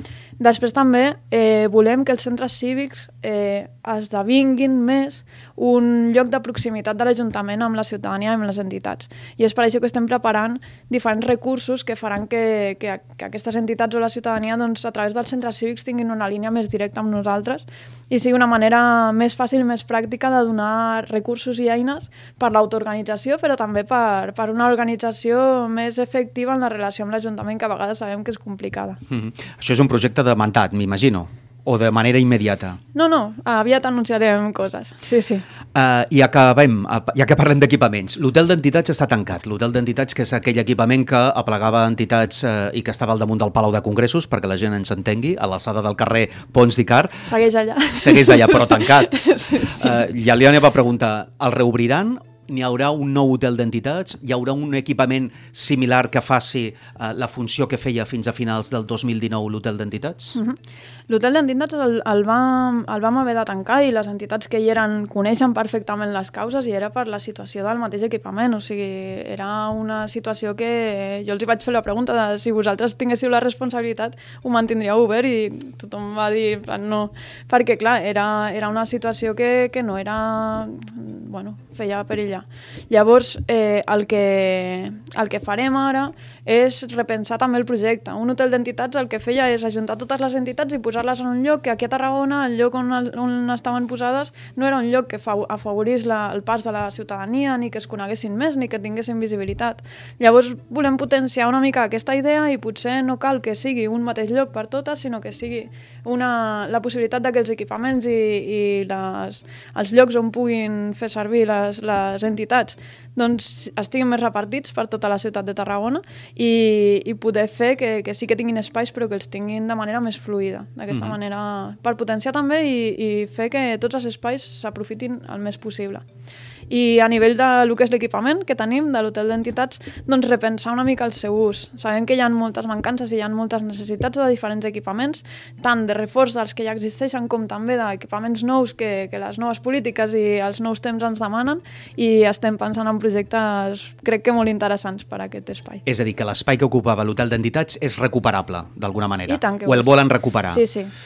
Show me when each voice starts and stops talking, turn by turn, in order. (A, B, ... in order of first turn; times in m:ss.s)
0:00.4-0:29.0 A
0:29.1-0:32.8 B
0:32.9-0:35.4 A
0:35.7-0:47.3 B
0:47.2-0:50.0 A
0:47.9-0:49.1 B
0:49.7-1:00.4 B
1:01.1-2:06.0 A
2:00.9-2:01.2 B
2:06.7-2:25.8 A
2:25.9-2:30.6 B
2:29.3-2:30.9 A